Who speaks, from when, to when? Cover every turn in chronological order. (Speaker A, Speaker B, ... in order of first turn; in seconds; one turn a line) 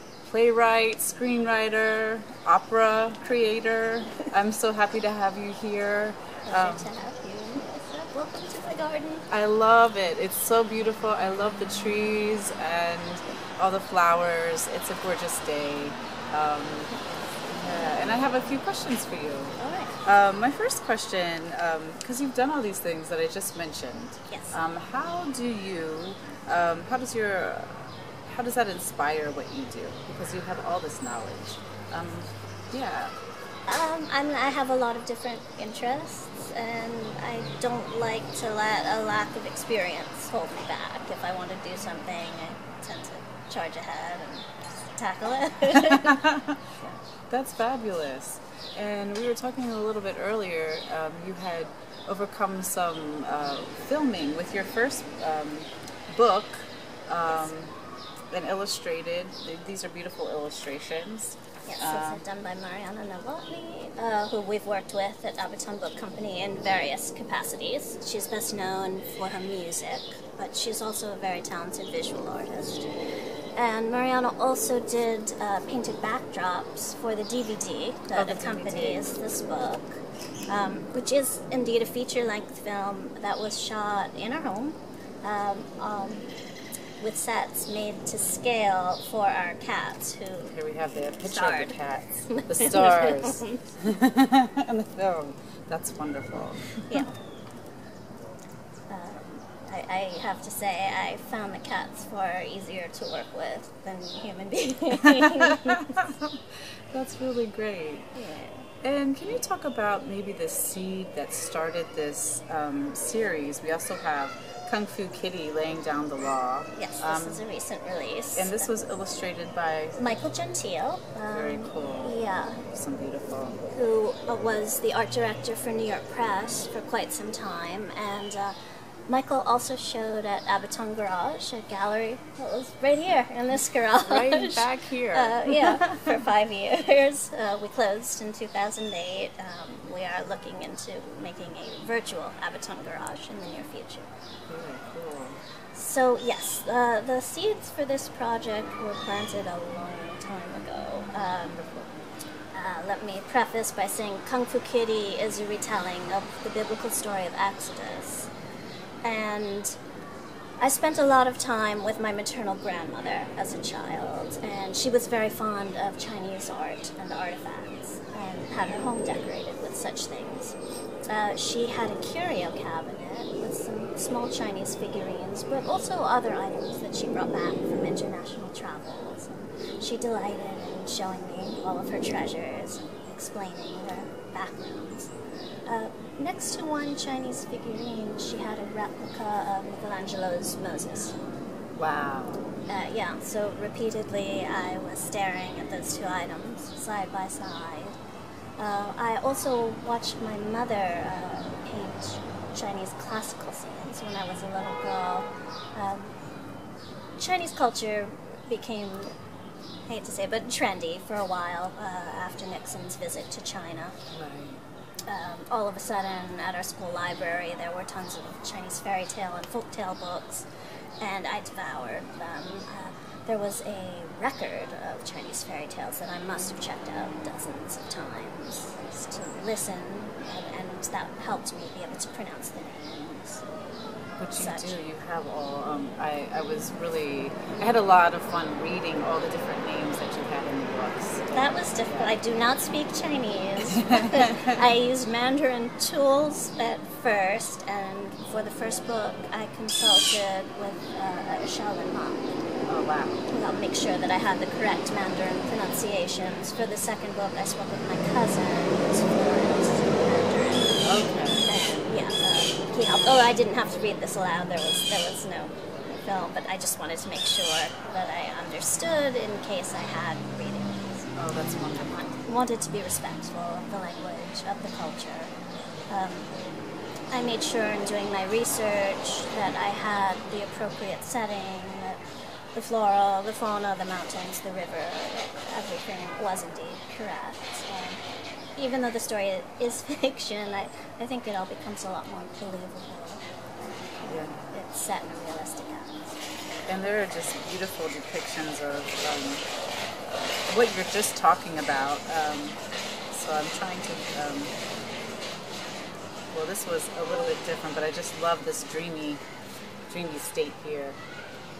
Speaker A: 0.2-6.9
Speaker B: 6.5-9.3
Speaker A: 9.3-16.9
Speaker A: 17.5-33.1
Speaker B: 19.6-20.0
Speaker B: 24.3-24.6
Speaker B: 33.7-46.2
Speaker A: 45.8-46.6
Speaker A: 47.3-57.7
Speaker A: 58.3-62.2
Speaker B: 61.7-72.9
Speaker B: 73.6-86.3
Speaker A: 78.2-79.2
Speaker B: 87.0-90.5
Speaker A: 90.5-97.1
Speaker B: 91.2-93.6
Speaker B: 96.9-97.2
Speaker B: 98.9-106.1
Speaker A: 105.1-106.4
Speaker A: 106.9-108.1
Speaker B: 108.2-108.7
Speaker A: 108.8-117.4
Speaker B: 116.8-118.8
Speaker A: 118.3-120.0
Speaker B: 120.0-122.6
Speaker A: 121.3-122.1
Speaker A: 122.7-123.6
Speaker B: 123.7-128.6
Speaker B: 129.1-144.1
Speaker A: 134.0-136.1
Speaker A: 144.5-145.4
Speaker B: 145.7-152.0
Speaker B: 152.5-158.3
Speaker B: 159.0-159.8
Speaker B: 160.6-185.1
Speaker B: 185.7-191.2
Speaker A: 191.8-192.4
Speaker B: 192.7-198.0
Speaker B: 198.6-206.2
Speaker B: 207.2-209.2
Speaker B: 209.9-214.0
Speaker A: 214.1-214.6
Speaker B: 215.1-220.5
Speaker B: 221.0-233.5
Speaker A: 234.2-242.2
Speaker B: 234.4-234.8
Speaker B: 241.3-252.4
Speaker A: 243.6-244.5
Speaker A: 252.7-253.3
Speaker B: 253.3-271.1
Speaker A: 260.8-261.5
Speaker A: 271.2-272.1
Speaker B: 271.7-275.3
Speaker B: 275.9-276.3
Speaker B: 277.1-282.0
Speaker B: 282.6-288.0
Speaker B: 288.6-293.2
Speaker A: 294.0-294.4
Speaker B: 294.4-296.2
Speaker A: 296.7-299.4
Speaker A: 300.5-302.6
Speaker A: 303.1-304.5
Speaker A: 306.3-309.2
Speaker A: 309.9-311.0